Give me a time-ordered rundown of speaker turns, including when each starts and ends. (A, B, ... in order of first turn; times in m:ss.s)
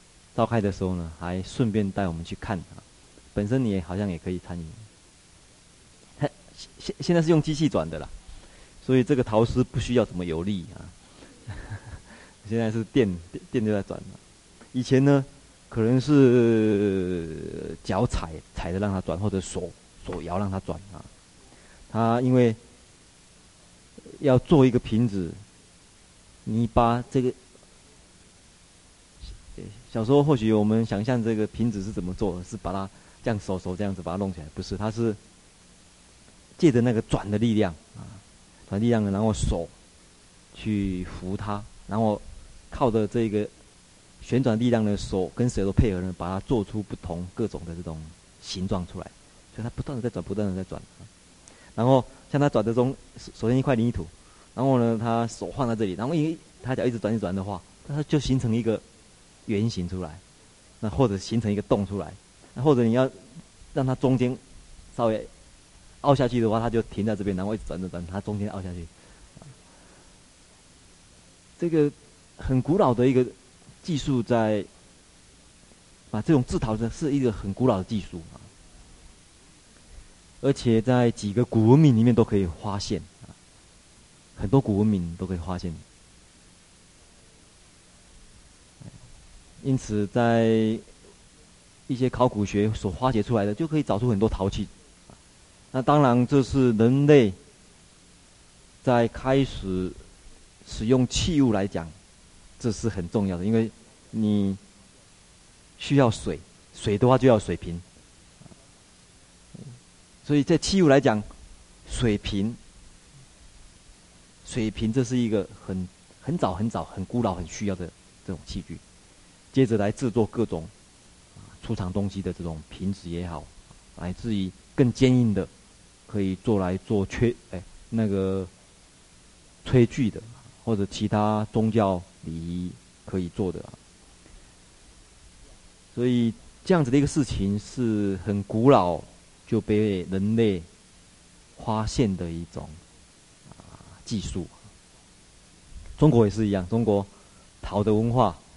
0:00.3-0:02.8 A
0:03.3-0:04.8 A
0:06.2-0:08.1 A
0:08.8-0:10.9 A
0:11.4-0:14.2 A
0:14.7-0:21.1 A
0:21.9-0:22.6 A
0:24.0-0:25.4 A
0:26.4-0:27.4 A
0:29.2-0:35.2 A
0:36.6-0:39.7 A
0:40.5-0:43.5 A
0:44.2-0:51.1 A
0:51.7-0:58.8 A
0:59.5-1:00.2 A
1:00.8-1:04.4 A
1:04.9-1:05.3 A
1:06.0-1:08.9 A
1:11.6-1:14.7 A
1:16.1-1:18.5 A
1:20.4-1:23.2 A
1:24.4-1:25.8 A
1:29.6-1:30.9 A
1:31.9-1:34.7 A
1:35.7-1:37.4 A
1:38.8-1:40.0 A
1:40.6-1:41.9 A
1:42.6-1:44.6 A
1:45.8-1:47.8 A
1:50.2-1:51.3 A
1:51.8-1:52.6 A
1:54.4-1:58.8 A
1:59.5-2:00.7 A
2:01.5-2:05.5 A
2:06.1-2:08.5 A
2:09.6-2:13.8 A
2:15.9-2:20.7 A
2:21.6-2:22.8 A
2:24.0-2:24.5 A
2:26.0-2:27.1 A
2:27.6-2:28.4 A